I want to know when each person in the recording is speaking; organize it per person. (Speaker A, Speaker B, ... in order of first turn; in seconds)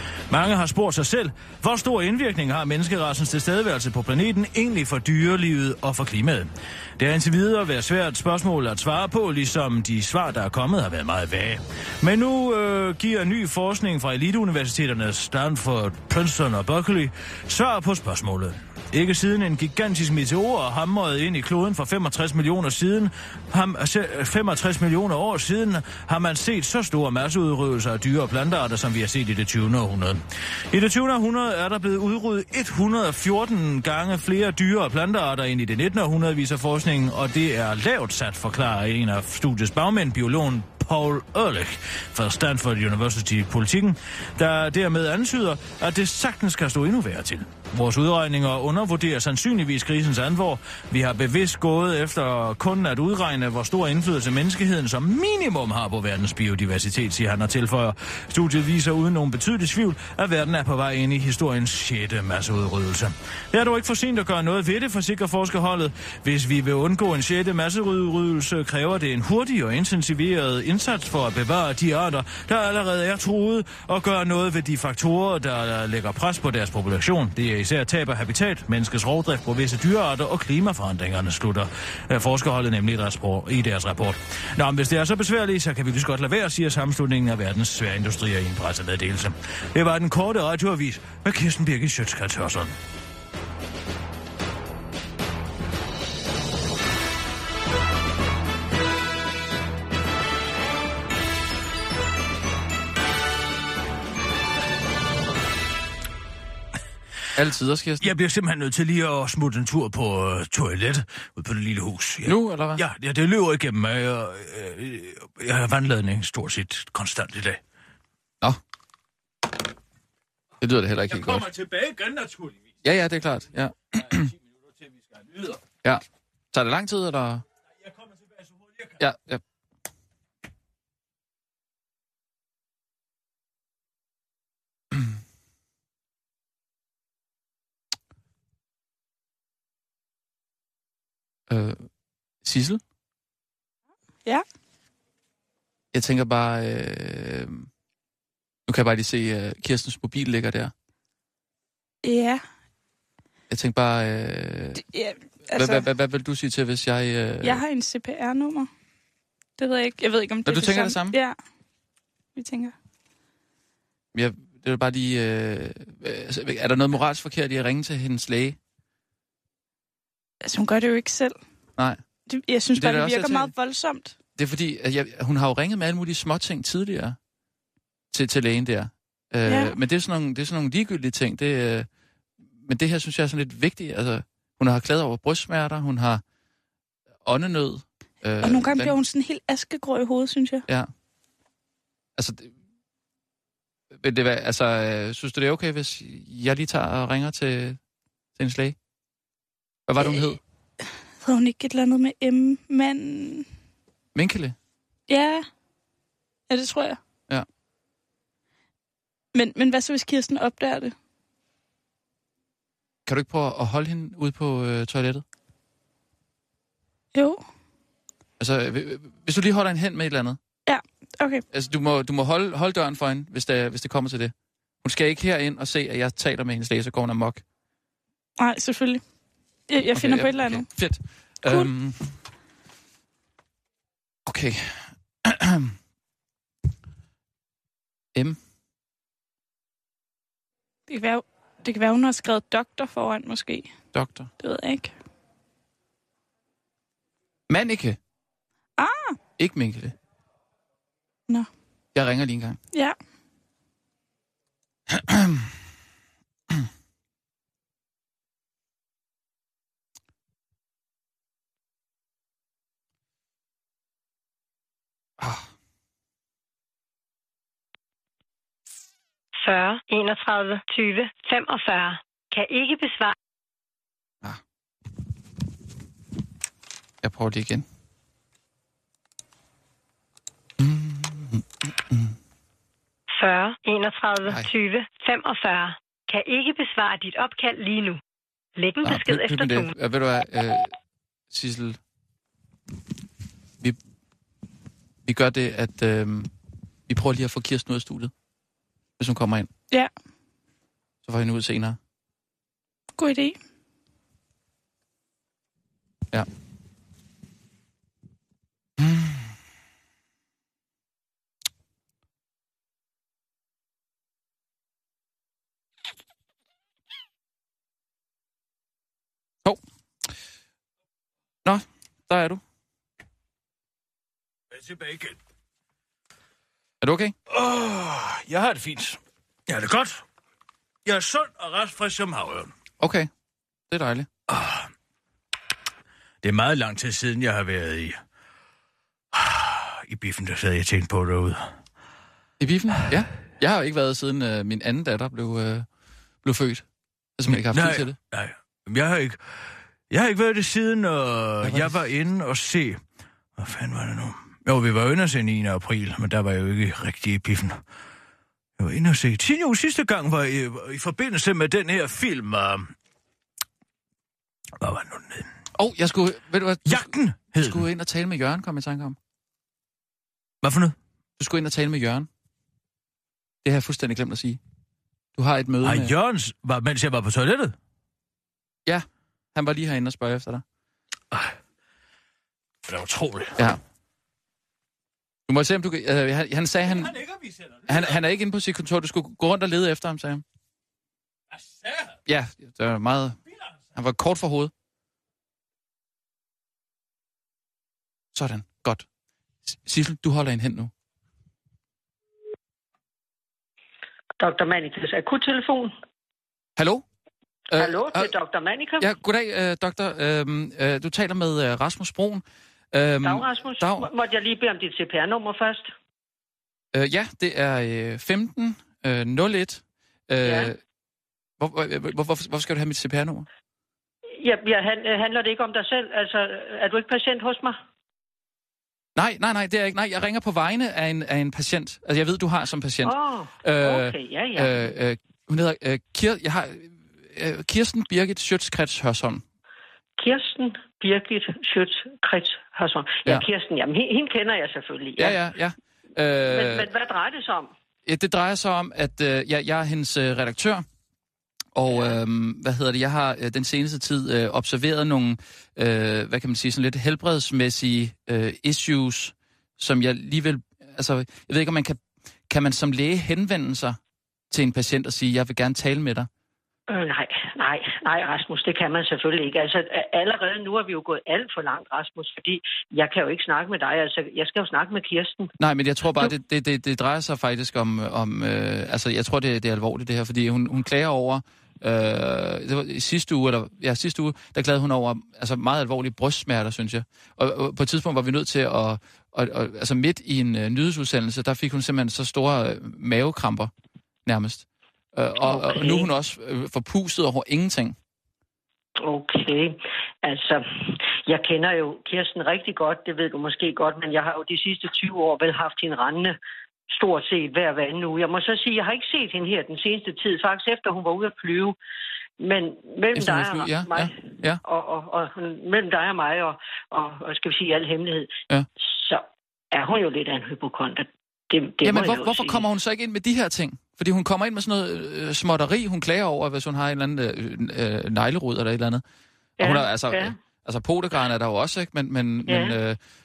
Speaker A: 0.3-92.8, 108.0-117.6, 121.1-122.6, 124.0-124.3, 124.9-125.6, 127.9-128.9, 324.5-325.2, 327.3-330.0, 330.8-332.5, 334.3-334.7, 336.2-338.0, 339.1-341.6, 347.2-349.2, 349.9-352.8, 353.4-357.6, 358.6-362.7, 364.6-365.3, 366.6-367.6, 370.4-370.8, 375.6-377.6, 381.1-381.4, 382.6-383.5, 386.6-388.0, 391.3-391.9
Speaker B: 107.3-108.1, 112.2-112.8, 120.6-121.5, 122.8-124.3, 125.8-127.4, 129.0-129.4, 141.5-142.8, 145.9-147.7, 148.7-150.7, 153.5-154.8, 155.5-157.6, 160.4-161.2, 164.1-168.6, 172.7-173.5, 174.4-177.2, 178.1-181.9, 182.6-186.2, 187.2-188.9, 192.2-192.5, 194.0-197.8, 198.3-198.8, 199.9-200.4, 204.1-204.6, 213.1-215.2, 218.4-220.4, 221.5-227.4, 229.9-232.0, 234.2-235.7, 243.9-244.3, 247.5-248.0, 249.4-249.9, 251.9-252.6, 254.9-255.4, 265.2-265.5, 277.0-277.6, 280.6-282.1, 284.2-284.5, 288.8-290.7, 291.3-291.8, 295.0-296.3, 296.9-298.1, 299.0-299.5, 301.0-301.8, 308.8-309.3, 321.4-322.4, 326.8-327.1, 332.8-333.1, 333.7-334.1, 342.4-345.7, 346.2-346.6, 347.2-348.0, 351.4-351.8, 365.6-369.0, 371.2-372.1, 373.4-374.4, 375.1-375.9, 378.6-380.4, 385.3-387.0, 387.7-390.2, 392.1-393.2, 393.7-394.5, 398.1-398.9, 399.4-400.7, 406.6-406.9, 407.5-408.1, 408.8-413.9, 416.7-420.6, 421.4-423.2, 428.9-439.2, 445.0-446.7, 447.9-450.6, 451.6-463.8, 464.3-466.1, 475.4-493.5, 494.1-497.8, 512.9-514.4, 521.6-528.8, 529.4-532.8
Speaker C: 152.0-152.4, 154.8-155.8, 157.4-158.7, 159.6-161.3, 162.3-162.7, 170.4-171.4, 172.3-174.1, 179.4-179.7, 188.4-190.6, 201.2-203.5, 205.1-205.5, 206.5-207.0, 209.3-210.9, 217.1-217.4, 220.7-221.4, 228.4-229.0, 229.7-230.9, 240.9-243.8, 244.4-244.9, 248.8-249.2, 303.0-303.4
Speaker D: 269.4-273.1, 283.1-288.0, 288.6-289.7
Speaker E: 404.2-405.7, 407.5-408.9, 413.0-415.7, 420.2-420.5, 424.2-427.6, 432.8-434.6, 440.0-445.2, 446.2-447.5, 451.7-452.0, 466.7-475.3, 495.2-495.9, 498.8-506.1, 506.7-511.6, 512.2-522.4, 529.4-530.1, 532.3-532.5